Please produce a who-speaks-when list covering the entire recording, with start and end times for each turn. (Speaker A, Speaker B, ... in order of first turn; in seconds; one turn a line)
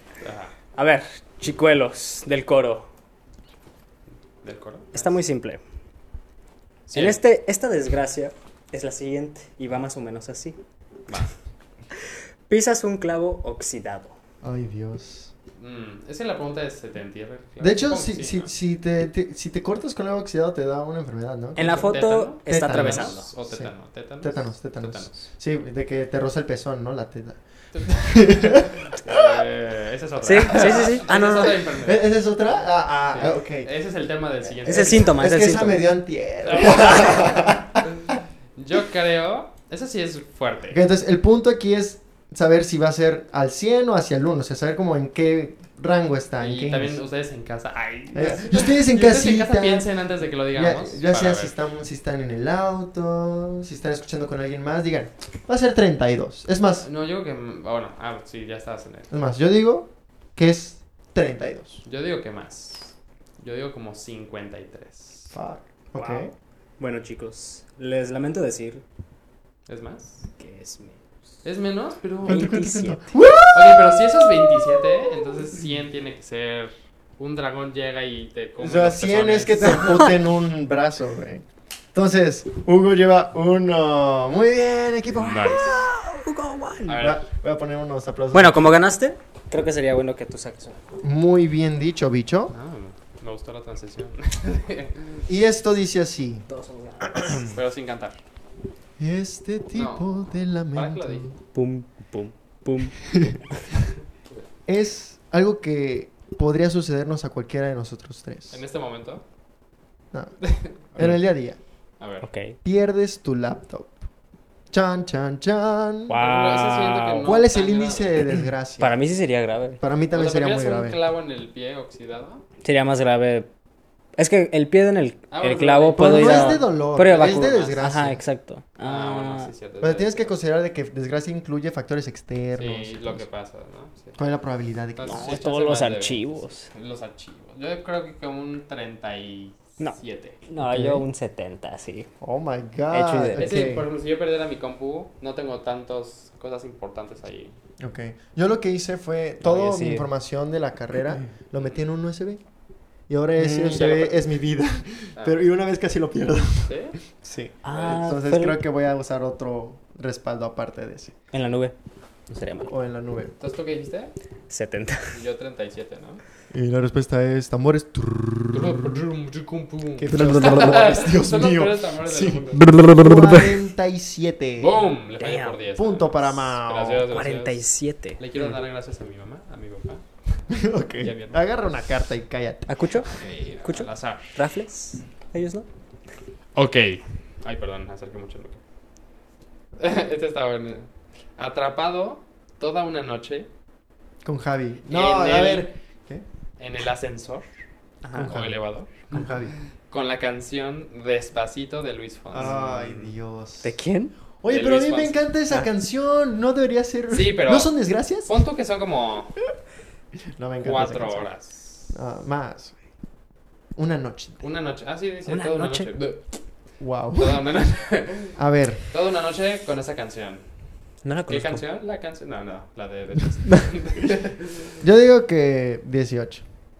Speaker A: 0.2-0.5
Speaker B: 0.8-2.9
Speaker A: 4.4-5.2
Speaker B: 4.9-5.6
Speaker A: 6.9-7.2
Speaker B: 6.9-10.6
Speaker A: 11.1-11.3
Speaker B: 12.5-14.2
Speaker C: 14.4-15.3
Speaker A: 15.6-18.5
Speaker C: 17.6-28.9
Speaker B: 21.6-23.3
Speaker A: 21.6-25.2
Speaker A: 27.7-32.0
Speaker B: 30.2-31.6
Speaker C: 30.6-33.7
Speaker A: 33.1-35.2
Speaker B: 34.7-35.8
Speaker C: 34.7-37.8
Speaker A: 36.4-40.8
Speaker C: 40.7-47.0
Speaker A: 46.4-51.5
Speaker C: 48.1-49.9
Speaker C: 50.5-56.9
Speaker A: 56.8-59.1
Speaker C: 59.1-61.8
Speaker A: 61.8-65.3
Speaker C: 65.3-66.3
Speaker B: 66.0-68.8
Speaker A: 69.7-70.2
Speaker B: 70.4-71.0
Speaker A: 71.4-72.5
Speaker C: 72.2-75.1
Speaker B: 72.3-73.2
Speaker A: 73.5-80.1
Speaker C: 78.6-85.8
Speaker A: 85.1-85.7
Speaker B: 85.6-87.0
Speaker A: 86.9-87.2
Speaker C: 86.9-88.8
Speaker B: 88.3-90.8
Speaker C: 91.0-92.5
Speaker A: 92.5-95.2
Speaker C: 95.3-96.4
Speaker B: 96.5-97.4
Speaker A: 97.4-98.2
Speaker C: 99.0-101.3
Speaker A: 99.7-100.2
Speaker A: 100.7-101.3
Speaker B: 101.5-103.0
Speaker C: 104.7-108.6
Speaker A: 108.5-109.2
Speaker C: 110.1-110.4
Speaker A: 110.4-111.2
Speaker C: 111.0-111.6
Speaker A: 112.0-112.3
Speaker B: 112.2-112.6
Speaker C: 112.6-114.1
Speaker C: 114.7-116.2
Speaker B: 116.1-117.2
Speaker A: 116.2-118.2
Speaker C: 117.2-119.0
Speaker B: 118.8-119.8
Speaker C: 119.8-121.0
Speaker A: 120.1-122.4
Speaker B: 122.6-123.5
Speaker B: 124.2-129.5
Speaker A: 125.3-127.8
Speaker C: 126.0-128.2
Speaker A: 128.8-130.3
Speaker C: 129.8-133.2
Speaker A: 132.6-134.2
Speaker C: 134.2-135.4
Speaker A: 134.9-140.4
Speaker B: 135.1-136.7
Speaker B: 139.8-142.1
Speaker C: 140.6-141.0
Speaker C: 142.2-143.9
Speaker B: 142.9-143.6
Speaker A: 143.4-147.6
Speaker C: 147.8-152.4
Speaker B: 149.4-150.1
Speaker C: 153.1-161.1
Speaker B: 153.4-153.7
Speaker A: 153.5-154.2
Speaker A: 155.2-155.4
Speaker A: 156.7-156.9
Speaker B: 157.6-158.6
Speaker A: 157.7-158.1
Speaker B: 161.3-161.7
Speaker B: 162.3-162.7
Speaker C: 162.7-163.3
Speaker A: 163.4-164.1
Speaker B: 164.5-165.2
Speaker A: 165.1-166.2
Speaker C: 166.5-169.0
Speaker A: 168.5-172.7
Speaker C: 170.0-174.8
Speaker A: 174.6-177.7
Speaker B: 175.2-175.6
Speaker C: 175.7-177.1
Speaker B: 177.1-178.2
Speaker A: 178.2-180.4
Speaker C: 180.5-182.7
Speaker A: 181.0-181.4
Speaker B: 182.7-183.1
Speaker A: 183.1-184.3
Speaker B: 183.6-185.7
Speaker A: 186.6-188.6
Speaker A: 189.8-193.5
Speaker C: 194.2-196.2
Speaker A: 194.9-195.7
Speaker A: 196.6-197.5
Speaker B: 198.0-198.3
Speaker C: 198.1-198.6
Speaker A: 198.2-199.3
Speaker C: 199.1-199.5
Speaker A: 199.9-203.1
Speaker C: 202.3-203.7
Speaker B: 203.6-204.1
Speaker C: 204.4-208.4
Speaker A: 204.5-205.2
Speaker A: 207.1-209.4
Speaker C: 210.3-211.2
Speaker A: 210.6-211.9
Speaker C: 211.9-212.8
Speaker C: 213.8-214.4
Speaker A: 214.4-216.4
Speaker B: 215.2-215.9
Speaker C: 216.8-217.5
Speaker A: 217.2-218.4
Speaker C: 218.3-218.8
Speaker A: 218.9-220.4
Speaker B: 221.0-221.6
Speaker A: 221.3-224.8
Speaker C: 224.8-226.4